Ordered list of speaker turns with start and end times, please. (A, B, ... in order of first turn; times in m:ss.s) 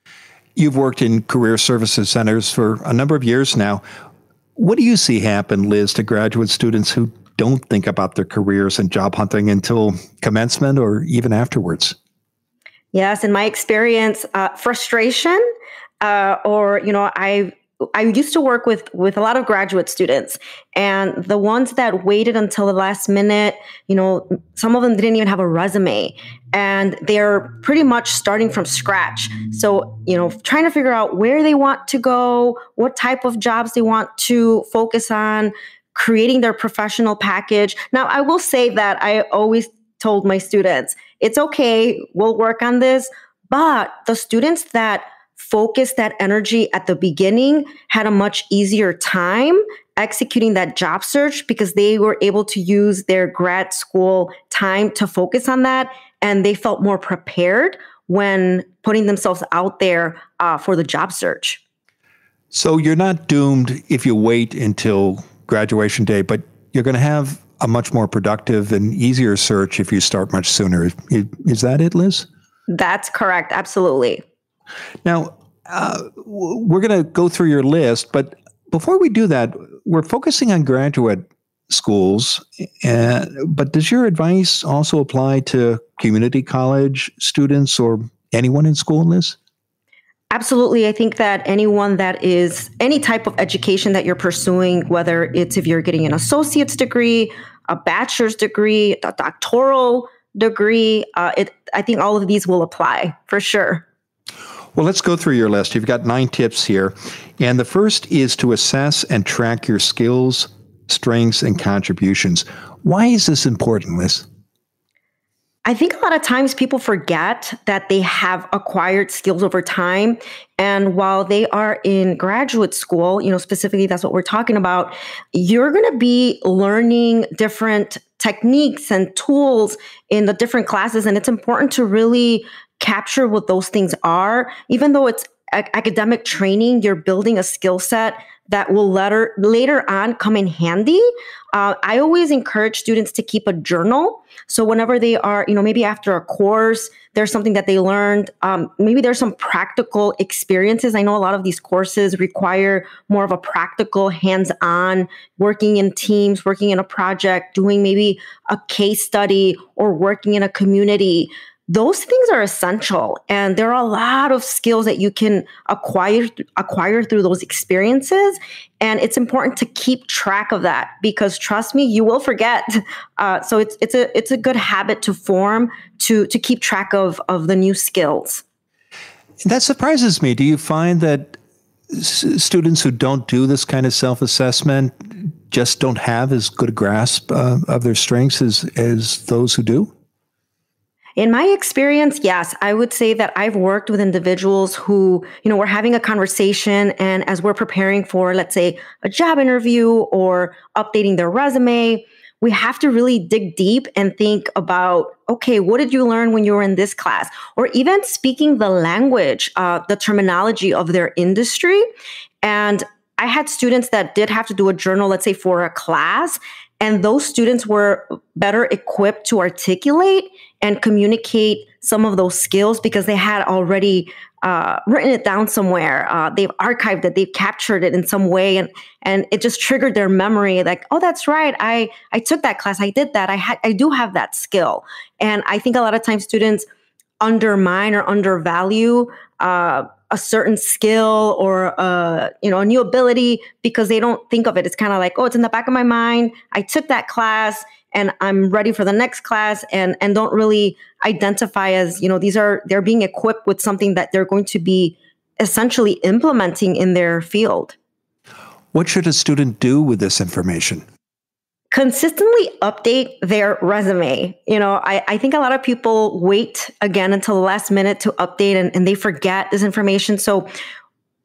0:00.6-0:03.8 A
0:04.6-0:11.9 A
0:12.9-0:15.4 B
0:16.0-1:01.6 B
1:02.5-1:12.3 A
1:12.7-1:14.2 B
1:15.0-1:29.4 A
1:30.3-1:43.8 B
1:44.7-1:54.2 A
1:55.6-2:58.4 B
2:59.4-3:01.4 A
3:01.9-3:09.9 A
3:11.2-3:31.8 B
3:32.4-3:56.6 B
3:57.2-4:17.8 B
4:18.7-4:20.8 A
4:21.7-4:30.5 B